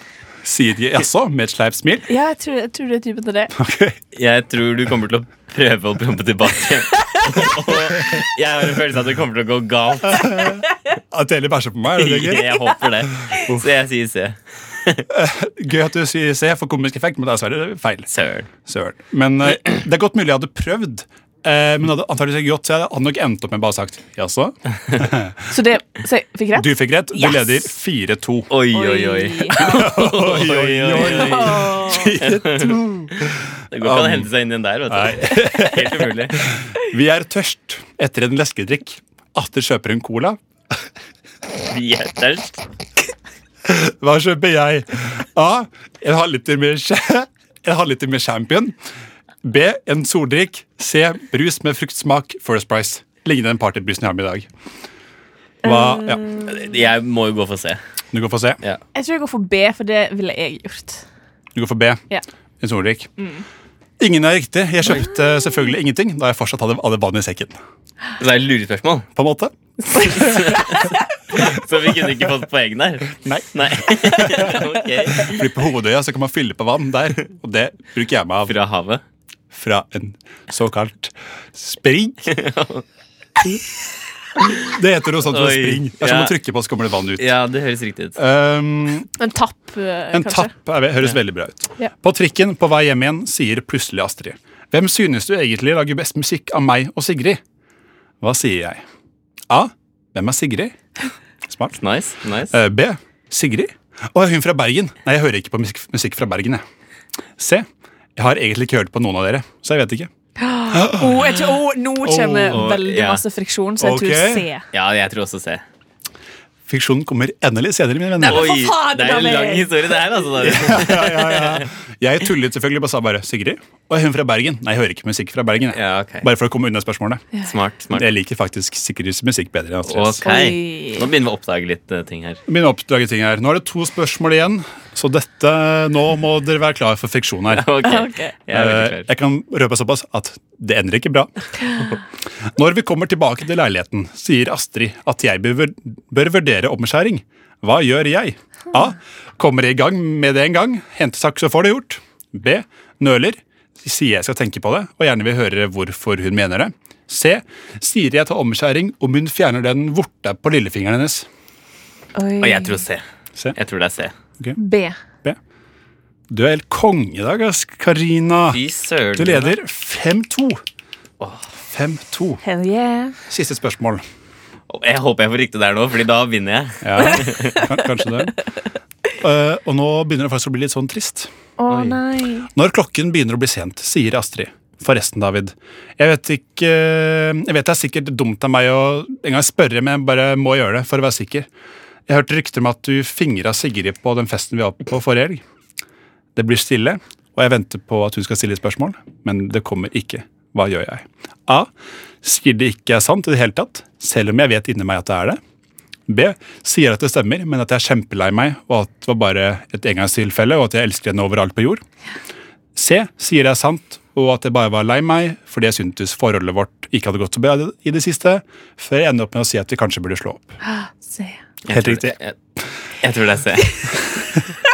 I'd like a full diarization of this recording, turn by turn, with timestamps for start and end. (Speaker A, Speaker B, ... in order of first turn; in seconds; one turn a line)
Speaker A: 0.4-2.1
Speaker B: 2.1-3.5
Speaker A: 3.5-4.0
Speaker C: 4.1-10.6
Speaker B: 7.0-7.5
Speaker A: 10.1-12.5
Speaker C: 11.9-15.1
Speaker A: 13.3-13.7
Speaker A: 15.1-18.1
Speaker C: 18.1-18.5
Speaker A: 18.6-25.5
Speaker B: 25.5-27.7
Speaker A: 26.5-28.5
Speaker C: 28.5-36.4
Speaker B: 28.7-29.6
Speaker A: 29.6-34.3
Speaker B: 31.0-32.1
Speaker A: 34.9-40.8
Speaker C: 41.7-42.6
Speaker A: 43.6-48.8
Speaker A: 49.4-54.5
Speaker A: 55.6-56.2
Speaker B: 55.6-56.7
Speaker C: 56.4-57.8
Speaker A: 58.1-58.6
Speaker B: 58.9-61.0
Speaker A: 61.5-62.0
Speaker A: 62.6-63.1
Speaker A: 64.0-67.6
Speaker C: 68.2-69.1
Speaker A: 69.2-70.7
Speaker C: 70.0-75.5
Speaker A: 73.2-78.5
Speaker C: 78.5-79.0
Speaker A: 79.5-82.2
Speaker C: 82.2-82.8
Speaker C: 84.4-84.7
Speaker A: 84.6-87.3
Speaker C: 85.2-86.3
Speaker C: 87.2-88.2
Speaker A: 88.2-89.1
Speaker B: 89.2-90.5
Speaker A: 90.1-97.4
Speaker A: 98.2-98.8
Speaker A: 99.5-100.8
Speaker A: 101.5-101.8
Speaker C: 101.8-102.6
Speaker A: 102.5-106.6
Speaker A: 107.4-110.1
Speaker B: 110.4-114.6
Speaker A: 110.7-111.3
Speaker A: 112.0-112.7
Speaker C: 112.5-113.2
Speaker A: 113.8-114.5
Speaker C: 114.7-115.6
Speaker A: 116.7-118.6
Speaker B: 118.2-120.0
Speaker C: 118.2-121.7
Speaker A: 120.4-127.3
Speaker C: 125.7-126.2
Speaker C: 127.4-128.1
Speaker A: 127.9-130.2
Speaker C: 129.8-132.4
Speaker B: 130.2-131.1
Speaker A: 132.5-137.7
Speaker C: 137.5-139.1
Speaker B: 137.8-138.3
Speaker A: 138.5-141.3
Speaker A: 142.4-161.3
Speaker B: 162.2-162.8
Speaker C: 162.4-163.0
Speaker C: 163.5-164.1
Speaker B: 164.5-165.0
Speaker A: 166.3-168.6
Speaker C: 168.5-169.5
Speaker A: 169.2-170.6
Speaker C: 171.2-171.5
Speaker A: 171.6-172.4
Speaker B: 172.4-173.2
Speaker A: 173.3-174.0
Speaker C: 174.7-177.7
Speaker A: 176.8-178.3
Speaker B: 177.0-177.6
Speaker A: 179.2-181.3
Speaker B: 181.6-182.5
Speaker A: 182.5-191.5
Speaker A: 192.1-195.4
Speaker A: 196.3-201.7
Speaker A: 202.2-205.4
Speaker A: 206.1-211.8
Speaker A: 212.7-220.6
Speaker B: 220.6-221.4
Speaker C: 221.6-222.3
Speaker A: 221.7-222.2
Speaker C: 223.0-224.0